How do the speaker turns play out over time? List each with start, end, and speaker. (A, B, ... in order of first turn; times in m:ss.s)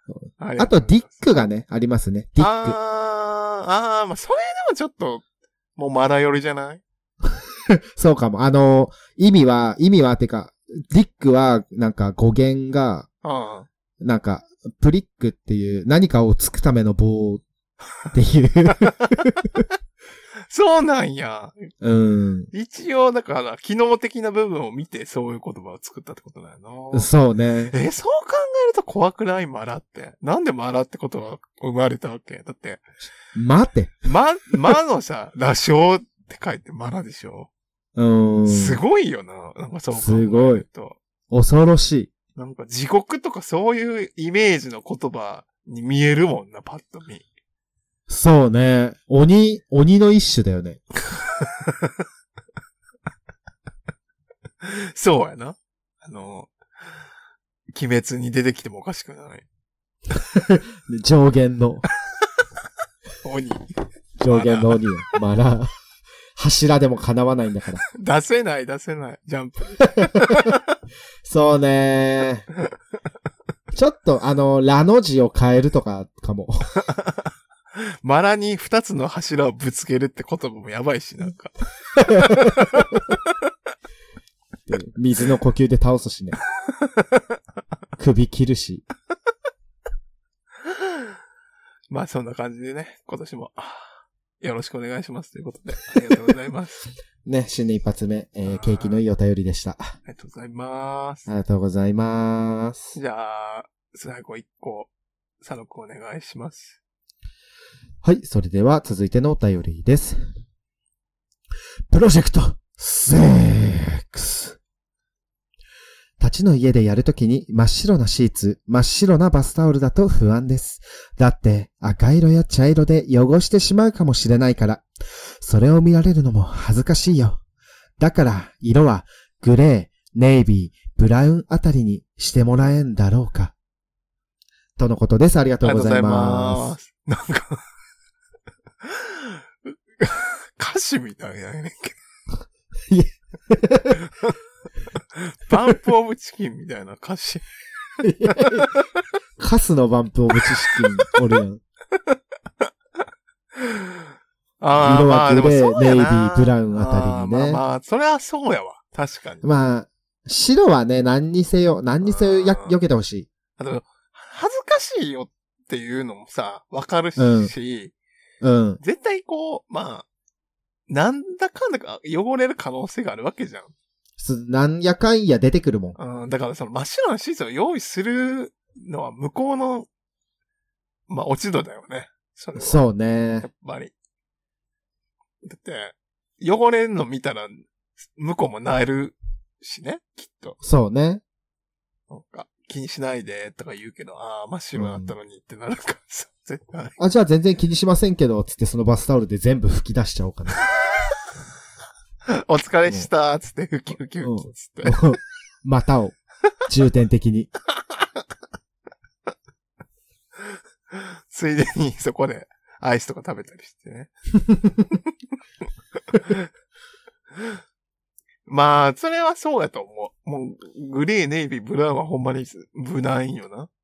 0:00.4-0:01.2 A
0:00.6-0:02.8 B
0:02.4-0:05.2 A
0:05.8-0:06.8 A
0:07.9-0:13.1 B
0:13.2-0:13.7 A
0:14.0-0:17.4 B
0:18.1-0:19.6 B
0:20.5-0:21.7 A
0:21.8-0:22.5 B
0:22.5-0:27.1 A
0:26.9-0:27.7 B
0:27.7-0:32.8 A
0:33.3-0:34.0 B
0:34.0-0:37.5 A
0:38.0-0:38.8 B
0:38.4-0:41.0 A
0:39.9-0:40.6 B
0:41.3-0:42.1 B
0:42.4-0:47.2 A
0:48.1-0:50.8 B
0:51.4-0:51.9 A
0:54.6-0:56.5 A
0:57.7-0:59.4 A
1:00.1-1:01.8 B
1:03.2-1:03.7 A
1:04.2-1:05.7 B
1:04.3-1:04.8 A
1:06.4-1:07.8 B
1:07.9-1:10.6 A
1:10.0-1:10.5 B
1:11.2-1:12.5 B
1:13.7-1:16.7 B
1:18.0-1:23.3 A
1:22.1-1:22.5 B
1:24.7-1:26.4 B
1:28.0-1:28.8 B
1:30.6-1:31.0 A
1:31.9-1:36.9 A
1:37.2-1:39.9 B
1:38.4-1:39.0 A
1:40.0-1:41.3 A
1:41.3-1:43.0 B
1:42.9-1:44.9 A
1:45.4-1:46.8 A
1:48.0-1:50.2 B
1:51.9-1:54.6 B
1:56.2-2:04.8 B
2:05.4-2:07.4 B
2:08.0-2:13.5 B
2:14.8-2:16.7 B
2:15.6-2:17.6 A
2:18.9-2:22.0 A
2:22.9-2:24.0 B
2:25.2-2:27.4 A
2:28.0-2:28.7 B
2:28.2-2:28.9 A
2:29.4-2:31.6 B
2:33.6-2:34.0 A
2:34.6-2:39.4 A
2:34.8-2:37.6 B
2:39.4-2:43.3 B
2:42.0-2:42.8 A
2:43.6-2:47.9 A
2:47.2-2:47.5 B
2:48.4-2:48.8 B
2:48.8-2:50.0 A
2:50.9-2:53.7 A
2:54.2-2:56.0 B
2:56.0-2:59.9 A
3:01.1-3:02.8 A
3:02.6-3:03.5 B
3:03.4-3:03.9 A
3:05.4-3:07.6 A
3:08.2-3:10.6 A
3:10.6-3:11.2 B
3:12.1-3:17.0 A
3:14.8-3:15.1 B
3:17.0-3:20.6 B
3:22.3-3:25.0 A
3:24.2-3:26.1 B
3:26.6-3:27.5 B
3:30.9-3:34.1 A
3:34.5-3:34.8 B
3:36.1-3:36.4 A
3:38.5-3:43.7 A